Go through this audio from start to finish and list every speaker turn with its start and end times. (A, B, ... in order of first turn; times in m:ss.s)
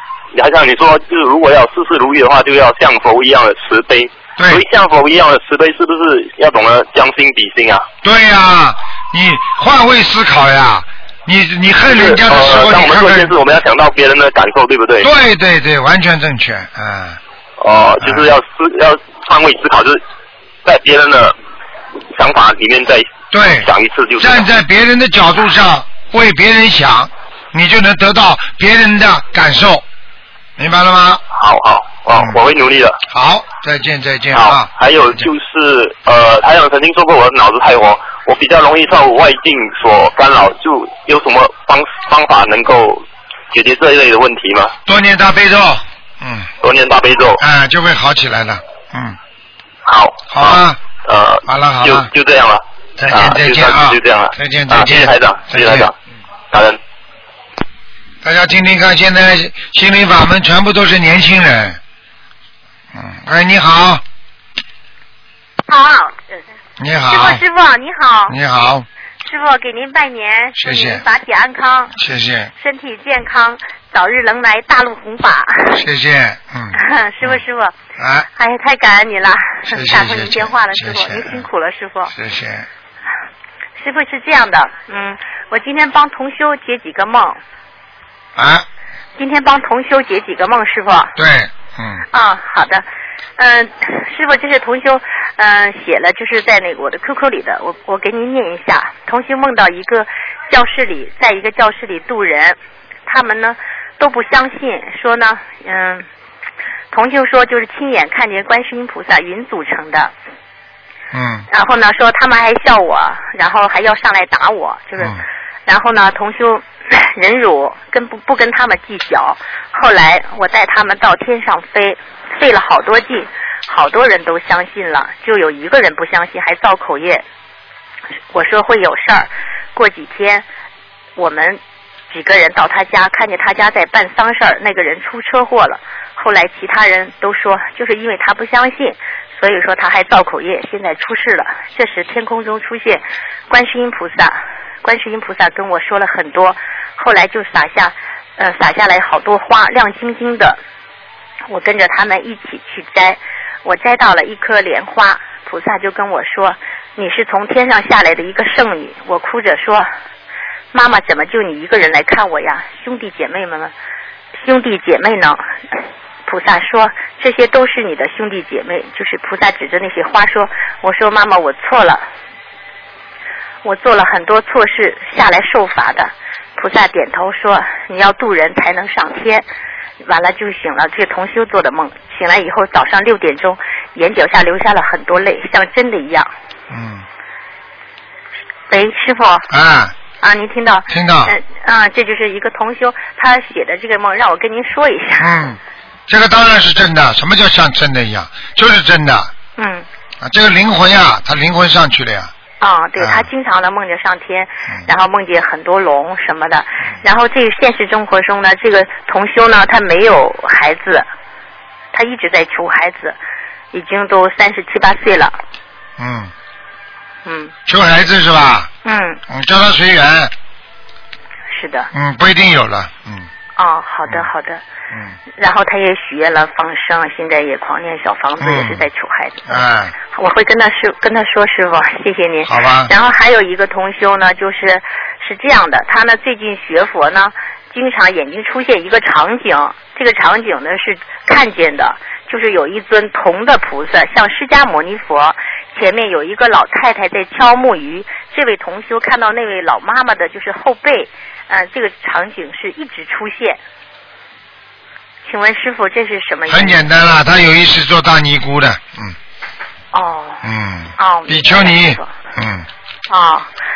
0:00.3-0:07.8 A
0:04.4-0:04.6 B
0:08.0-0:13.3 B
0:11.9-0:15.1 A
0:15.0-0:17.2 B
0:17.6-0:20.0 A
0:18.0-0:18.3 B
0:20.6-0:21.3 A
0:22.1-0:23.1 A
0:23.3-0:29.8 B
0:23.6-0:24.5 A
0:30.6-0:31.2 B
0:31.3-0:33.0 A
0:32.1-0:32.4 B
0:33.1-0:35.3 B
0:34.3-0:44.7 A
0:44.8-0:46.5 B
0:46.6-0:47.4 A
0:47.4-0:49.2 B
0:49.8-0:55.9 A
0:50.3-0:50.8 B
0:51.4-0:52.1 B
0:53.0-0:55.9 B
0:56.5-0:56.8 A
0:58.2-1:01.8 B
1:02.9-1:04.0 B
1:05.7-1:06.4 C
1:06.8-1:07.4 B
1:07.1-1:08.4 C
1:08.3-1:08.9 B
1:09.2-1:11.9 C
1:10.6-1:11.0 B
1:12.0-1:12.5 B
1:12.6-1:15.8 C
1:15.7-1:17.4 B
1:16.7-1:17.7 C
1:18.0-1:18.3 B
1:18.4-1:22.1 C
1:19.7-1:21.4 B
1:22.1-1:22.7 B
1:23.8-1:27.4 C
1:28.4-1:28.6 B
1:29.2-1:31.1 C
1:31.2-1:32.0 B
1:32.1-1:32.8 C
1:33.4-1:46.0 C
1:46.9-1:50.1 C
1:51.1-1:51.5 B
1:51.5-2:07.2 C
2:08.3-2:10.4 C
2:11.2-2:30.6 C
2:31.5-2:39.9 C
2:40.7-2:43.7 C
2:44.3-2:52.0 C
2:53.6-2:59.4 C
3:00.0-3:06.3 C
3:06.7-3:07.0 B
3:08.7-3:09.4 C
3:09.5-3:09.9 B
3:10.2-3:15.5 C
3:10.9-3:11.3 B
3:15.2-3:19.3 B
3:19.6-3:19.8 C
3:20.2-3:22.3 B
3:22.6-3:31.1 C
3:23.0-3:23.3 B
3:31.9-3:33.2 C
3:33.7-3:35.4 C
3:36.0-3:36.3 B
3:37.2-3:37.5 C
3:37.6-3:38.7 B
3:38.8-3:39.2 C
3:39.3-3:40.3 B
3:41.5-3:41.9 C
3:41.9-3:43.3 B
3:43.6-3:44.6 C
3:45.4-4:13.6 C
3:48.4-3:48.8 B
3:49.5-3:49.9 B
3:52.4-3:52.9 B
4:15.2-4:16.8 C
4:16.5-4:19.2 B
4:19.9-4:20.4 C
4:20.4-4:22.7 B
4:21.0-4:22.1 C
4:23.1-4:23.5 C